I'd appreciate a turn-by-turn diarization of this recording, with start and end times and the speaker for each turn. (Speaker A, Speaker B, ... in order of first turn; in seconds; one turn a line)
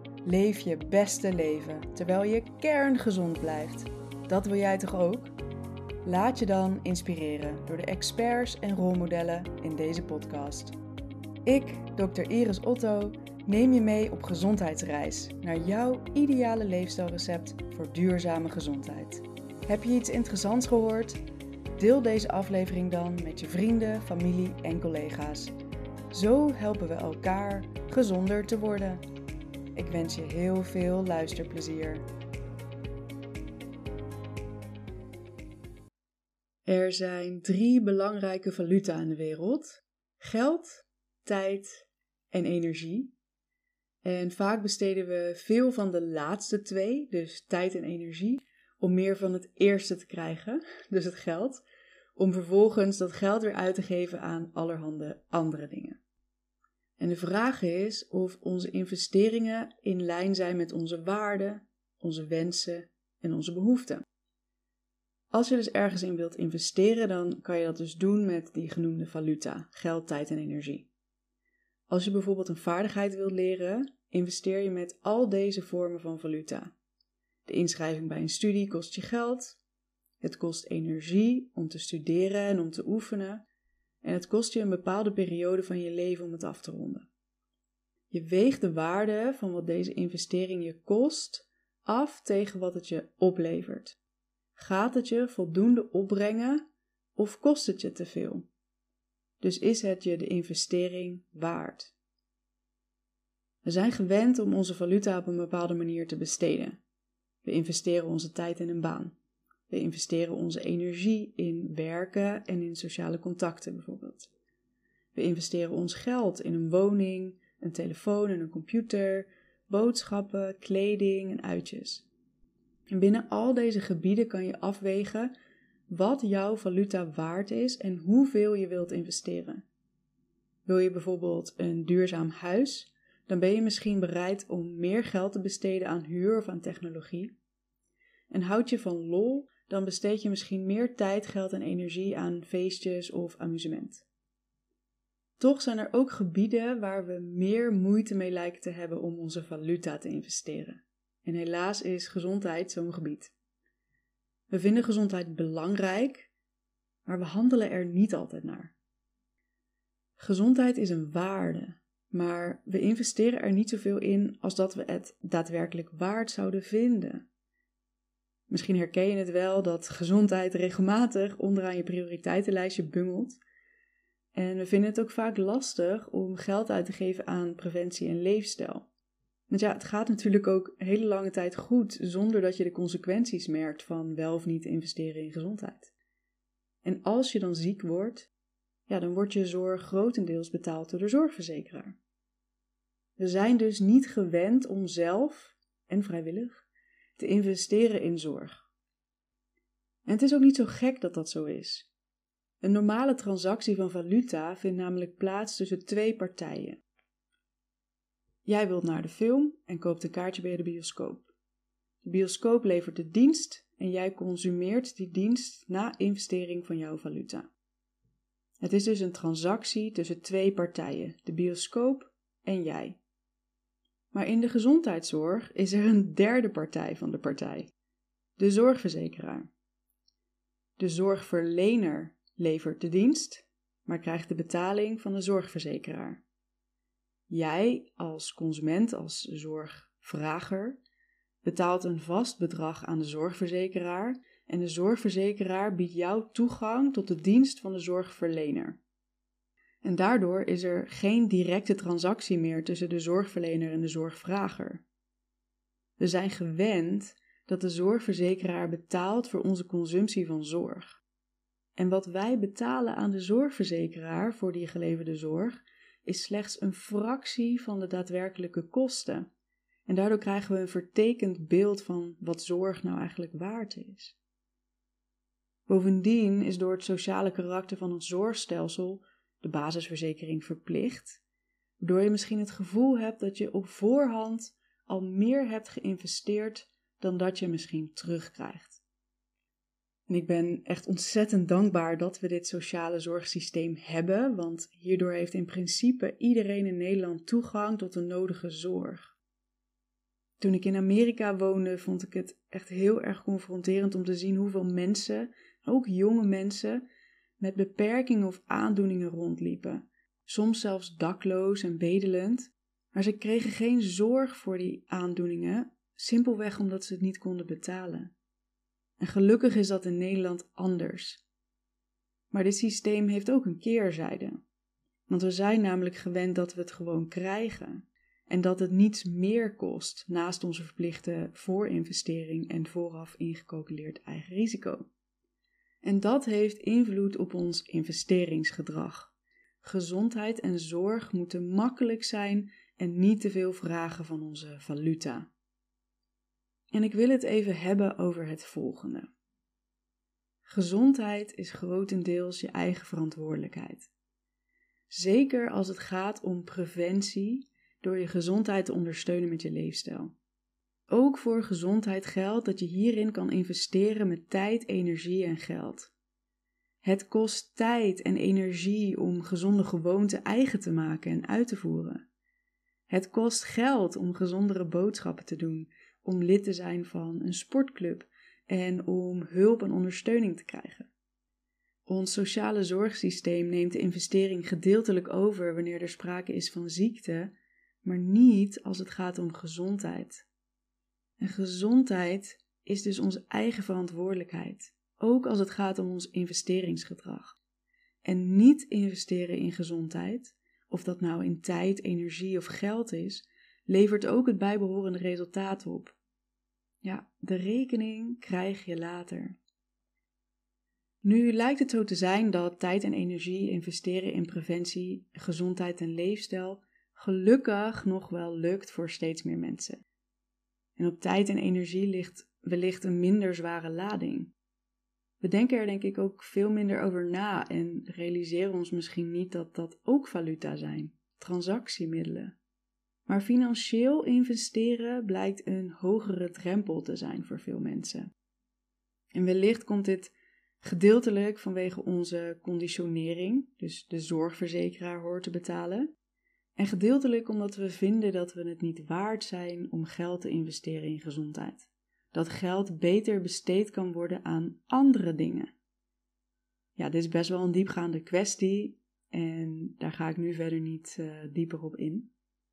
Speaker A: 0.2-5.3
Speaker A: 6.0-10.8
Speaker A: 11.4-21.2
Speaker A: 21.8-25.5
Speaker A: 26.1-29.0
Speaker A: 29.7-32.0
Speaker A: 36.6-43.1
Speaker A: 44.0-51.6
Speaker A: 52.1-56.0
Speaker A: 57.0-64.0
Speaker A: 65.3-70.9
Speaker A: 71.9-76.7
Speaker A: 77.4-79.6
Speaker A: 80.2-83.4
Speaker A: 84.0-87.1
Speaker A: 88.1-94.0
Speaker A: 94.5-96.6
Speaker A: 97.2-98.5
Speaker A: 99.4-101.9
Speaker A: 103.6-106.8
Speaker A: 107.4-109.1
Speaker A: 109.7-114.3
Speaker A: 115.1-122.0
Speaker A: 122.9-125.3
Speaker A: 125.9-129.6
Speaker A: 130.7-137.3
Speaker A: 138.3-144.1
Speaker A: 145.4-153.3
Speaker A: 154.5-156.3
Speaker A: 157.1-158.7
Speaker A: 160.2-167.2
Speaker A: 168.5-173.4
Speaker A: 174.3-178.9
Speaker A: 179.5-185.9
Speaker A: 186.8-188.3
Speaker A: 188.9-192.0
Speaker A: 193.2-196.7
Speaker A: 197.2-198.6
Speaker A: 200.1-201.9
Speaker A: 202.6-206.8
Speaker A: 208.4-211.3
Speaker A: 212.0-217.5
Speaker A: 218.6-223.0
Speaker A: 224.1-227.7
Speaker A: 228.4-229.5
Speaker A: 230.8-236.2
Speaker A: 237.3-240.8
Speaker A: 241.4-248.8
Speaker A: 249.8-254.8
Speaker A: 256.0-261.0
Speaker A: 261.8-269.3
Speaker A: 269.9-274.2
Speaker A: 275.7-281.2
Speaker A: 281.8-288.8
Speaker A: 290.1-299.1
Speaker A: 300.4-306.8
Speaker A: 307.4-318.1
Speaker A: 319.0-321.2
Speaker A: 322.3-324.4
Speaker A: 325.1-334.9
Speaker A: 335.8-345.3
Speaker A: 346.7-349.1
Speaker A: 350.4-353.9
Speaker A: 354.9-360.1
Speaker A: 360.9-365.9
Speaker A: 366.8-372.0
Speaker A: 372.9-380.9
Speaker A: 381.9-390.3
Speaker A: 391.2-397.4
Speaker A: 398.0-405.9
Speaker A: 406.8-409.4
Speaker A: 411.0-419.8
Speaker A: 420.8-424.3
Speaker A: 425.2-432.4
Speaker A: 433.1-438.1
Speaker A: 439.1-445.9
Speaker A: 446.6-455.5
Speaker A: 456.8-462.1